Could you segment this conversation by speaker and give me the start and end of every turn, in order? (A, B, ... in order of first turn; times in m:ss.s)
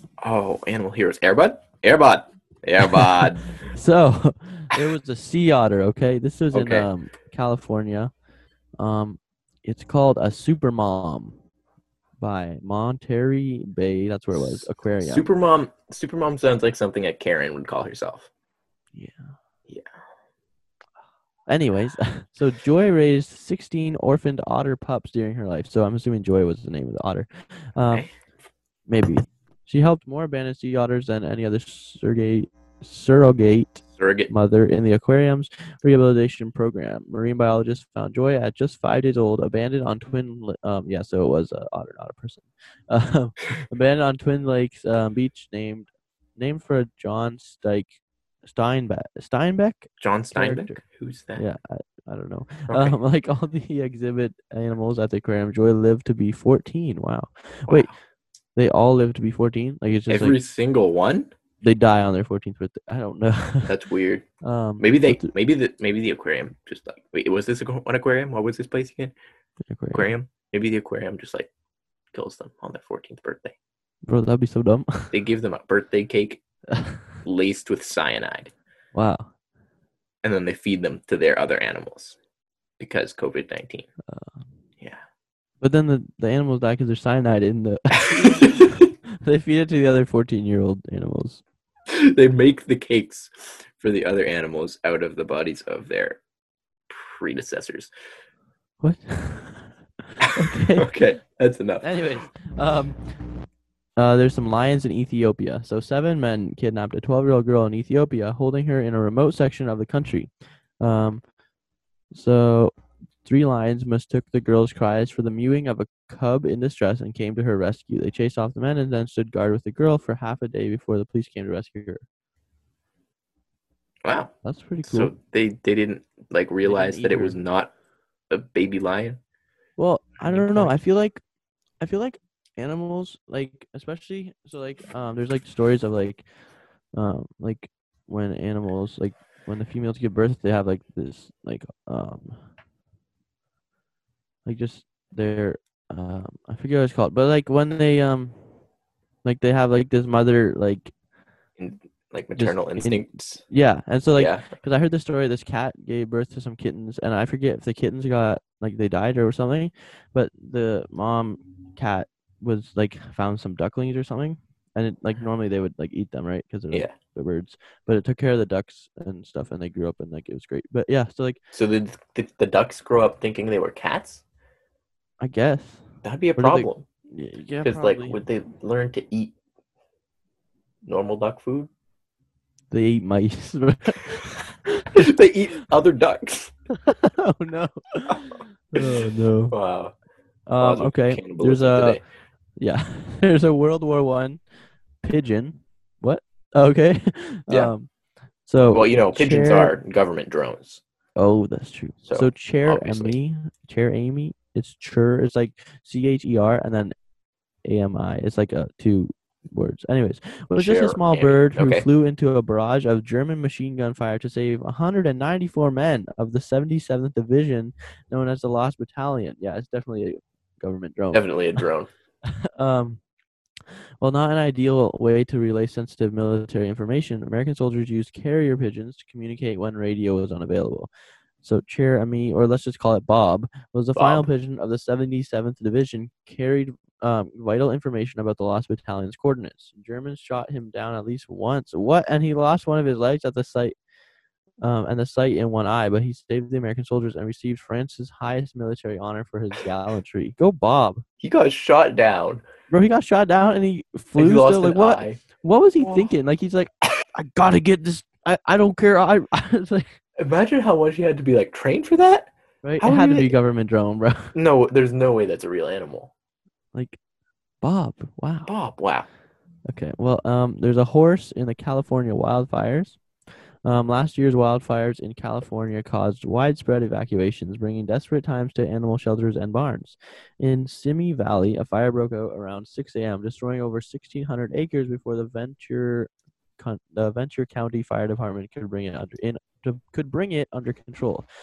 0:00.2-0:03.4 A
0:02.9-0:08.1 B
0:06.5-0:06.9 A
0:08.8-0:11.3 B
0:12.2-0:15.3 B
0:14.4-0:18.3 A
0:18.9-0:19.2 B
0:21.5-0:28.1 B
0:28.9-0:47.9 B
0:34.0-0:34.3 A
0:48.4-0:50.8 B
0:50.0-0:51.4 A
0:51.4-0:57.9 B
0:52.7-0:53.0 A
0:58.6-1:00.4 B
1:00.1-1:01.3 A
1:01.6-1:03.7 B
1:03.7-1:04.2 A
1:04.4-1:05.3 B
1:04.8-1:09.1 A
1:09.7-1:10.1 B
1:09.9-1:11.5 A
1:12.1-1:13.6 A
1:14.1-1:15.2 B
1:15.1-1:16.4 A
1:16.7-1:17.0 B
1:17.2-1:18.5 A
1:18.9-1:19.3 B
1:20.2-1:22.2 A
1:22.8-1:23.9 A
1:24.1-1:24.4 B
1:25.6-1:31.4 B
1:28.0-1:28.9 A
1:31.9-1:36.2 A
1:36.9-1:37.9 A
1:38.8-1:40.9 B
1:40.2-1:42.0 A
1:41.8-1:43.0 B
1:44.0-1:50.3 B
1:50.8-1:51.2 B
1:52.1-1:52.7 B
1:53.2-2:02.0 B
2:04.0-2:04.3 A
2:04.4-2:05.1 B
2:04.8-2:07.7 A
2:06.6-2:07.4 B
2:08.3-2:09.2 A
2:09.8-2:11.2 B
2:10.2-2:10.7 A
2:11.8-2:16.2 B
2:16.9-2:22.4 B
2:24.4-2:28.4 B
2:29.2-2:30.9 B
2:31.6-2:33.4 A
2:32.4-2:51.4 B
2:34.2-2:34.4 A
2:51.5-2:54.2 A
2:55.2-2:55.8 B
2:56.0-2:56.8 A
2:56.4-2:58.2 B
2:57.6-2:59.3 A
3:00.8-3:01.7 A
3:02.7-3:05.1 B
3:04.9-3:06.5 A
3:06.8-3:09.6 B
3:08.8-3:09.9 A
3:10.5-3:12.0 B
3:10.6-3:12.0 A
3:12.6-3:14.4 B
3:15.0-3:17.9 B
3:18.4-3:19.8 B
3:18.6-3:20.8 A
3:21.2-3:26.9 B
3:22.0-3:23.2 A
3:27.6-3:41.3 B
3:30.6-3:31.9 A
3:41.1-3:41.9 A
3:42.6-3:43.0 B
3:44.0-3:50.9 B
3:51.4-4:03.8 B
3:53.9-3:54.3 A
4:04.6-4:11.0 B
4:11.2-4:12.4 A
4:12.7-4:20.0 B
4:14.2-4:15.2 A
4:15.8-4:16.1 A
4:20.2-4:23.3 A
4:22.6-4:24.3 B
4:24.3-4:26.1 A
4:27.6-4:28.5 B
4:28.5-4:29.0 A
4:29.7-4:33.0 B
4:33.6-4:51.2 B